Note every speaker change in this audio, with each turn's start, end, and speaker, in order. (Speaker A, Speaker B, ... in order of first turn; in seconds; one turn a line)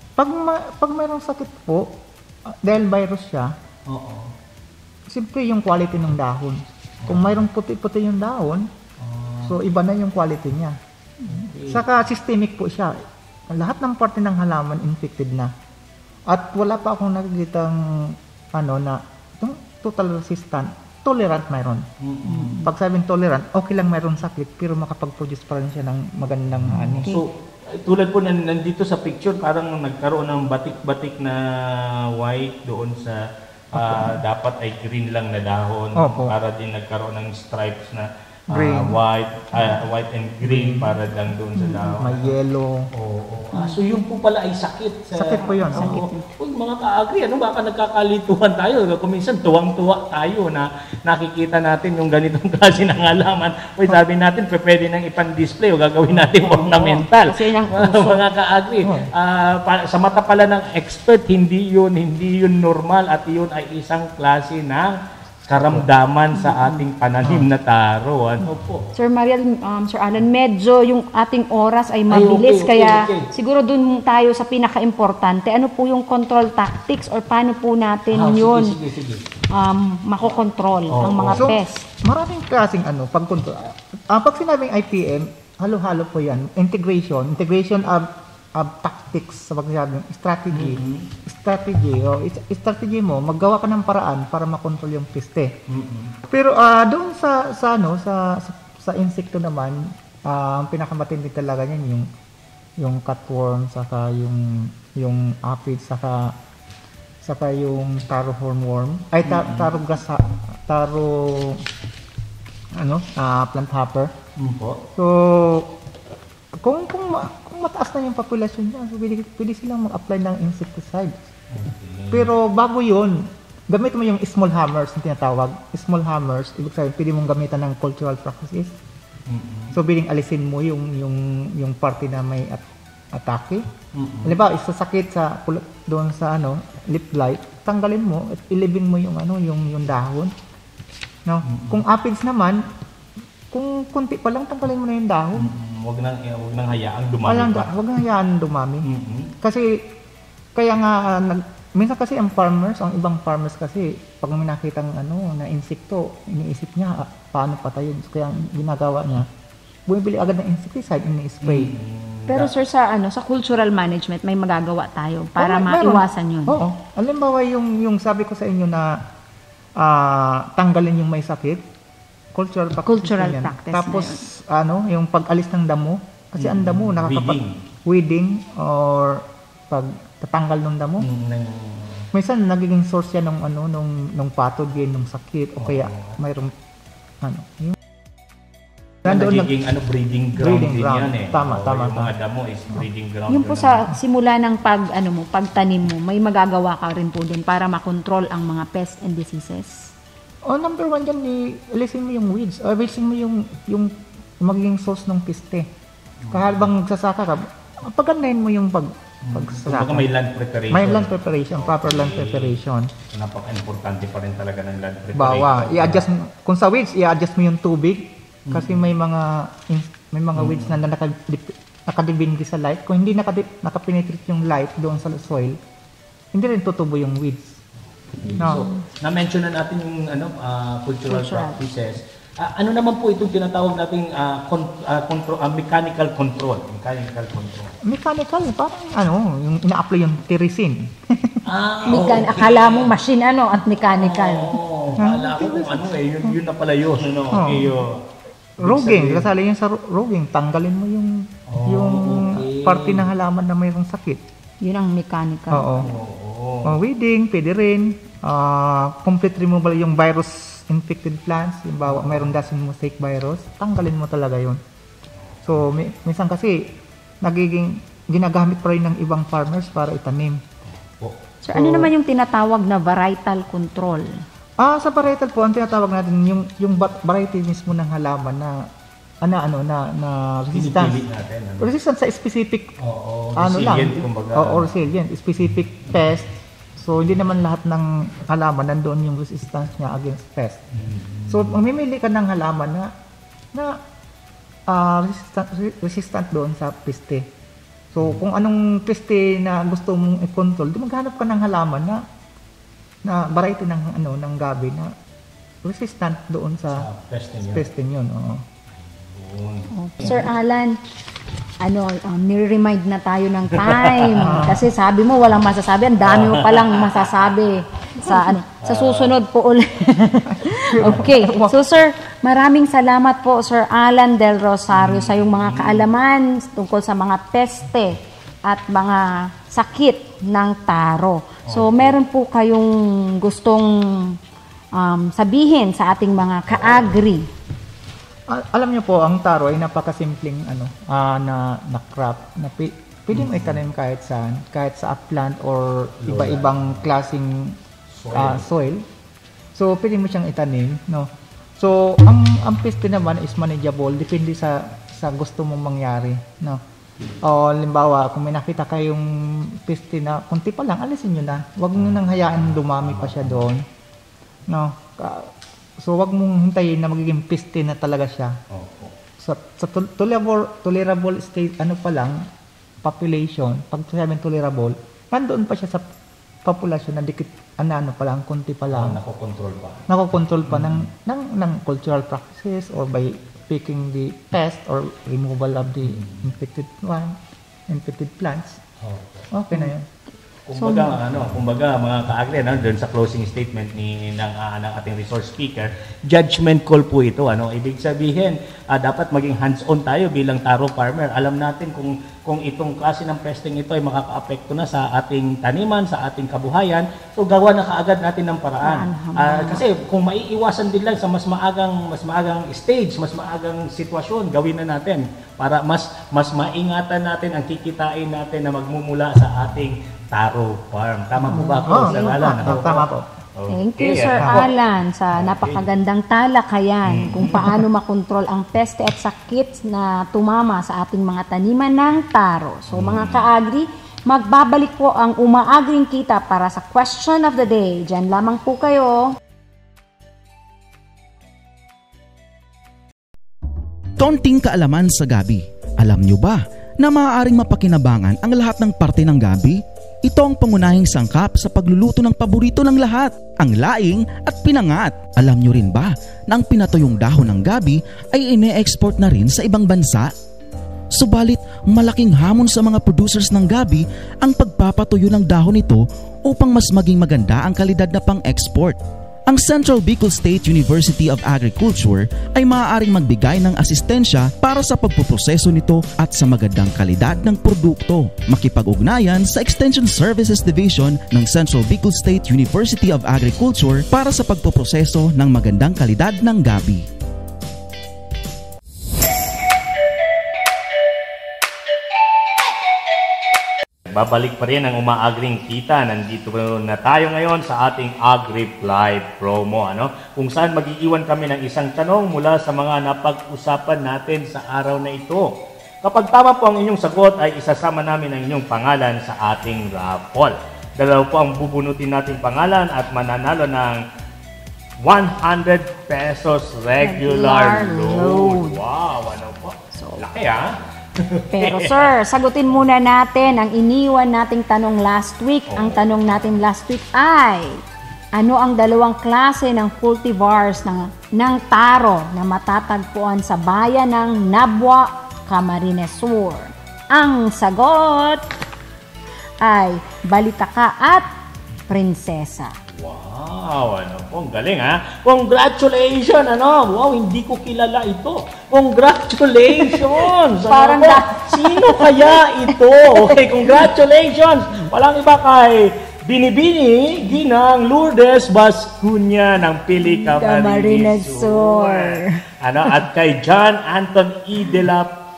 Speaker A: 0.2-1.9
Speaker A: 2.5-3.5
Speaker B: 3.9-4.3
Speaker A: 5.1-8.7
Speaker B: 7.0-7.4
Speaker B: 9.0-9.6
Speaker A: 9.4-10.8
Speaker B: 11.3-11.9
Speaker A: 11.7-15.5
Speaker A: 16.3-27.2
Speaker B: 22.0-22.7
Speaker B: 26.6-42.3
Speaker A: 33.7-34.2
Speaker A: 36.0-36.4
Speaker A: 38.5-39.0
Speaker A: 40.4-41.0
Speaker A: 41.6-42.9
Speaker B: 42.9-65.0
Speaker C: 43.5-43.8
Speaker A: 45.1-46.1
Speaker C: 45.4-46.3
Speaker C: 56.4-58.2
Speaker A: 58.8-59.1
Speaker B: 65.5-68.9
Speaker A: 65.6-65.8
Speaker C: 68.9-78.8
Speaker B: 72.1-73.3
Speaker B: 78.1-79.2
Speaker C: 79.5-81.9
Speaker B: 80.9-81.5
Speaker A: 81.4-95.5
Speaker B: 90.5-91.1
Speaker B: 95.7-96.2
Speaker A: 96.3-102.1
Speaker A: 102.8-106.4
Speaker A: 107.2-111.6
Speaker B: 109.2-109.7
Speaker A: 112.8-114.2
Speaker B: 114.4-114.8
Speaker A: 115.0-115.7
Speaker A: 116.6-121.2
Speaker B: 121.5-122.3
Speaker A: 122.1-128.7
Speaker B: 129.3-129.8
Speaker A: 129.7-133.7
Speaker B: 133.9-134.3
Speaker A: 134.2-140.3
Speaker A: 141.2-142.6
Speaker B: 141.5-141.8
Speaker A: 143.5-145.5
Speaker B: 145.4-147.7
Speaker A: 147.3-148.9
Speaker B: 148.8-149.3
Speaker A: 149.4-149.9
Speaker A: 150.6-159.3
Speaker A: 159.9-161.7
Speaker B: 161.4-162.5
Speaker C: 162.3-166.6
Speaker A: 165.4-169.0
Speaker A: 169.8-171.6
Speaker A: 172.3-181.1
Speaker C: 172.8-174.2
Speaker B: 176.4-177.6
Speaker B: 181.0-182.1
Speaker A: 182.1-186.5
Speaker B: 185.6-186.2
Speaker A: 187.2-187.8
Speaker A: 189.0-189.5
Speaker B: 189.0-193.9
Speaker A: 190.3-192.1
Speaker C: 193.3-199.9
Speaker A: 200.5-205.7
Speaker B: 206.2-206.7
Speaker A: 206.3-210.1
Speaker B: 209.2-212.6
Speaker A: 210.7-212.9
Speaker B: 213.1-216.1
Speaker A: 215.2-225.6
Speaker B: 218.5-218.9
Speaker B: 220.3-220.8
Speaker A: 226.3-227.6
Speaker B: 228.2-237.8
Speaker A: 228.4-228.7
Speaker C: 228.5-228.8
Speaker C: 231.1-231.6
Speaker A: 237.8-241.4
Speaker B: 241.4-242.9
Speaker C: 241.9-244.6
Speaker B: 243.7-248.0
Speaker A: 245.0-246.3
Speaker A: 247.3-247.8
Speaker B: 248.6-249.3
Speaker A: 248.6-254.2
Speaker B: 251.5-253.1
Speaker C: 254.6-255.8
Speaker A: 255.5-255.9
Speaker B: 255.8-256.8
Speaker A: 256.6-264.6
Speaker B: 261.9-262.3
Speaker A: 265.4-270.4
Speaker C: 271.4-274.2
Speaker A: 271.5-271.9
Speaker A: 274.6-278.7
Speaker A: 279.2-281.0
Speaker B: 280.5-281.7
Speaker A: 281.6-282.8
Speaker B: 282.8-284.7
Speaker A: 283.4-290.6
Speaker B: 290.7-291.6
Speaker A: 291.3-292.9
Speaker A: 293.5-293.8
Speaker A: 294.7-297.3
Speaker A: 297.9-302.1
Speaker A: 303.1-304.9
Speaker A: 305.6-306.9
Speaker B: 306.7-307.7
Speaker A: 307.4-308.5
Speaker B: 308.8-310.3
Speaker C: 309.7-310.8
Speaker C: 311.6-334.2
Speaker B: 313.6-314.5
Speaker A: 314.2-314.7
Speaker B: 316.0-317.3
Speaker B: 318.6-319.2
Speaker A: 320.5-321.5
Speaker B: 320.8-321.1
Speaker B: 324.7-325.9
Speaker B: 331.4-331.9
Speaker C: 334.7-337.2
Speaker A: 338.3-347.6
Speaker B: 343.1-343.6
Speaker B: 346.0-346.9
Speaker B: 347.9-348.5
Speaker A: 348.1-348.9
Speaker A: 349.6-356.6
Speaker A: 357.2-363.6
Speaker B: 361.8-363.5
Speaker A: 364.5-368.4
Speaker B: 368.5-368.9
Speaker A: 369.2-372.3
Speaker A: 372.8-375.9
Speaker A: 376.4-379.0
Speaker B: 378.7-379.9
Speaker A: 379.9-388.6
Speaker B: 380.4-380.9
Speaker B: 385.8-386.3
Speaker B: 388.8-389.3
Speaker A: 389.3-389.9
Speaker B: 390.5-424.6
Speaker C: 390.6-391.0
Speaker C: 408.6-409.6
Speaker A: 421.2-423.1
Speaker C: 421.3-422.7
Speaker C: 423.5-439.2
Speaker A: 424.2-424.5
Speaker B: 425.1-425.7
Speaker B: 426.9-427.6
Speaker A: 427.0-427.4
Speaker B: 432.7-433.3
Speaker D: 444.0-460.1
Speaker D: 460.9-486.9
Speaker B: 493.9-505.3
Speaker B: 505.8-513.8
Speaker B: 514.8-521.9
Speaker C: 516.8-518.6
Speaker C: 519.7-520.1
Speaker C: 521.3-527.6
Speaker B: 525.5-525.9
Speaker C: 528.1-538.2
Speaker C: 539.4-541.1
Speaker C: 541.7-542.5
Speaker B: 542.7-564.9
Speaker C: 549.7-553.6
Speaker C: 559.8-562.8